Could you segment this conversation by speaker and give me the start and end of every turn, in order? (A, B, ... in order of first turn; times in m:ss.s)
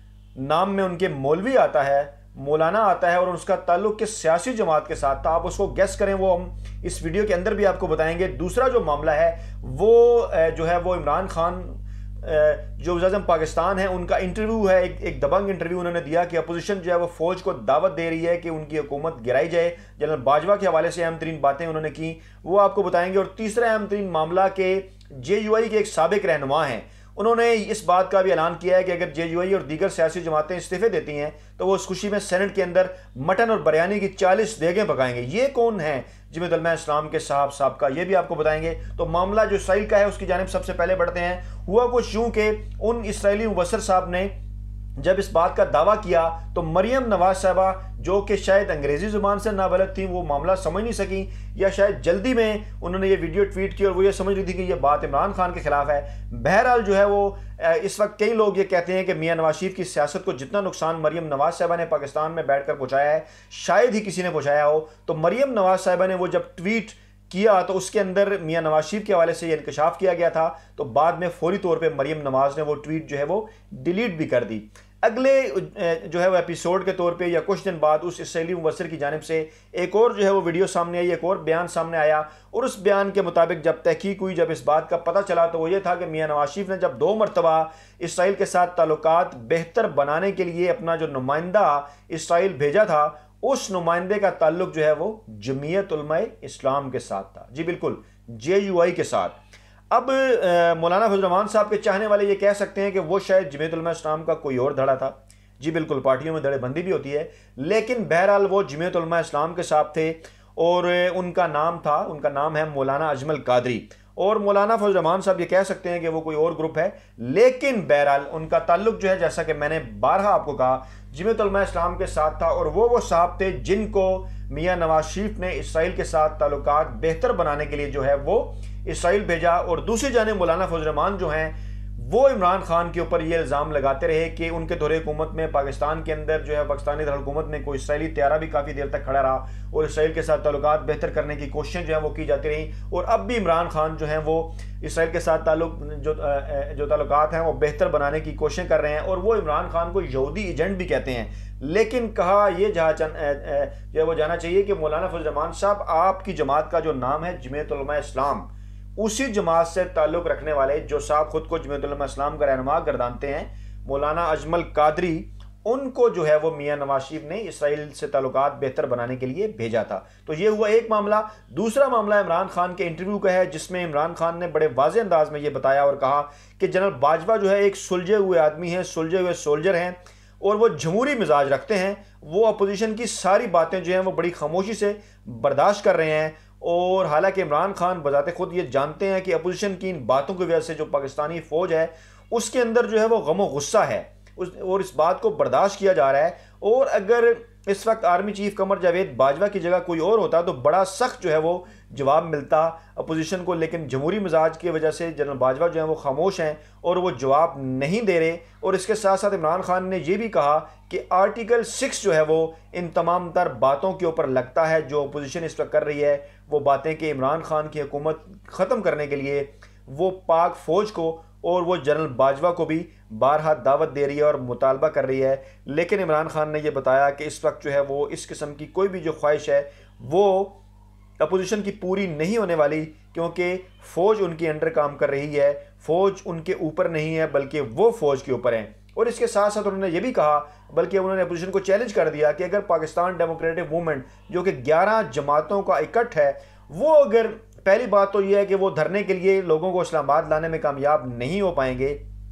0:00.4-0:44.3 A
0:45.0-1:39.3 A
1:39.9-3:50.6 A
3:51.2-4:12.0 A